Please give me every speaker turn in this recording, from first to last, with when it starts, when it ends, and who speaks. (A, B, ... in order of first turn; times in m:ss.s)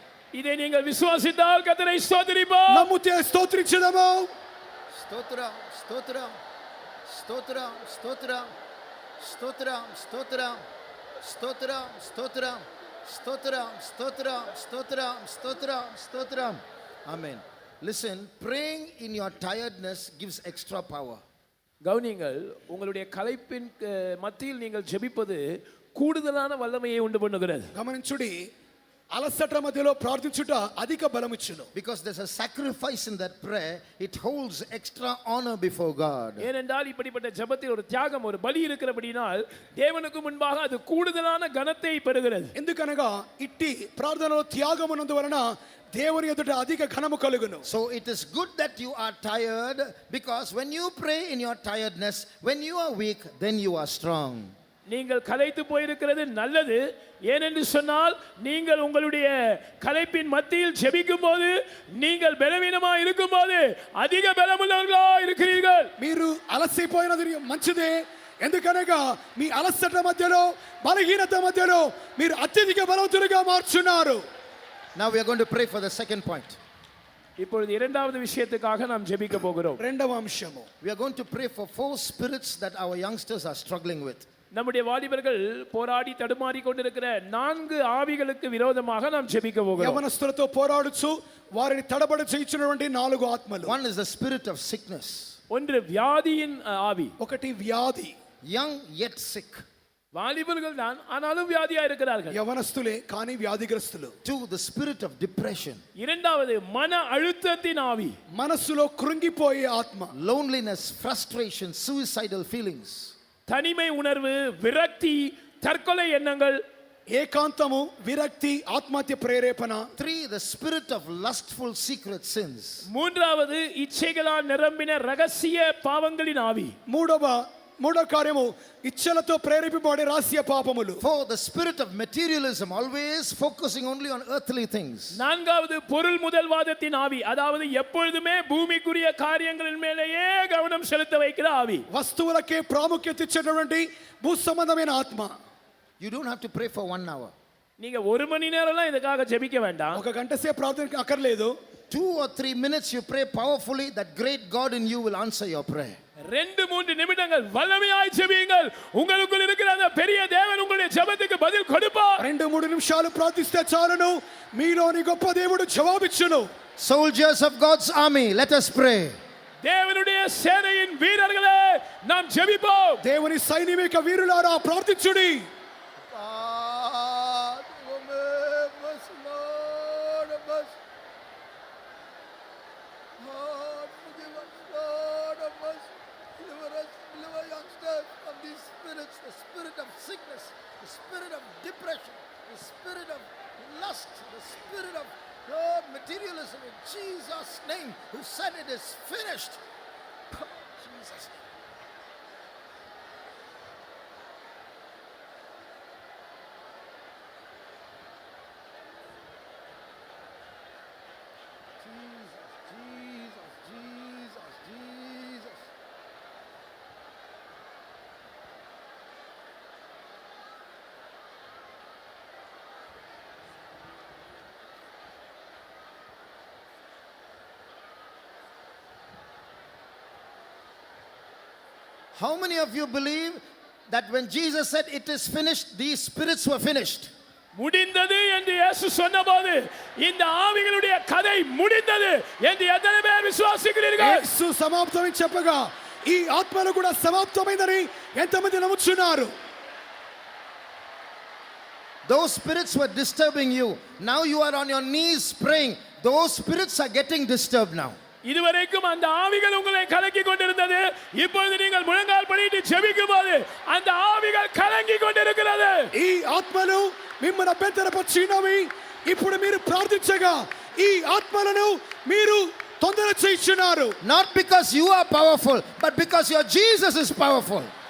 0:00.3-0:02.9 A
0:02.7-0:04.3 B
0:04.9-0:06.4 C
0:07.0-0:08.5 C
0:09.2-0:10.6 C
0:11.2-0:21.2 C
0:21.8-0:27.7 A
0:27.7-0:28.4 B
0:29.1-0:31.7 B
0:31.7-0:36.5 C
0:36.4-0:42.5 A
0:42.5-0:47.6 B
0:47.6-0:54.5 C
0:54.9-1:05.9 A
1:06.0-1:14.2 B
1:15.0-1:16.6 C
1:17.4-1:19.8 A
1:19.8-1:20.7 B
1:20.8-1:24.3 C
1:24.5-1:30.0 A
1:29.8-1:33.7 B
1:33.6-1:35.4 C
1:35.5-1:37.1 A
1:37.2-1:38.1 B
1:38.5-1:39.6 C
1:40.1-1:42.4 A
1:42.3-1:44.1 B
1:44.2-1:45.8 C
1:46.0-1:48.2 A
1:48.3-1:50.1 B
1:50.1-1:53.1 C
1:53.5-1:56.6 A
1:57.1-1:59.9 B
2:00.0-2:02.8 C
2:02.9-2:06.7 A
2:06.9-2:11.0 B
2:11.0-2:15.2 C
2:15.1-2:21.8 A
2:21.9-2:25.3 B
2:26.0-2:27.3 C
2:27.8-2:30.0 A
2:29.9-2:31.5 B
2:31.9-2:36.0 C
2:36.3-2:42.2 A
2:42.2-2:46.5 B
2:46.8-2:49.2 C
2:49.6-2:53.0 A
2:53.0-2:55.4 B
2:56.1-3:00.7 C
3:03.2-3:19.6 C
3:20.3-3:21.4 C
3:31.8-3:35.6 C
3:52.1-3:57.1 C
3:57.5-4:04.3 A
4:04.0-4:09.3 B
4:12.0-4:18.0 C
4:18.2-4:25.9 A
4:25.9-4:34.0 B
4:34.0-4:37.7 C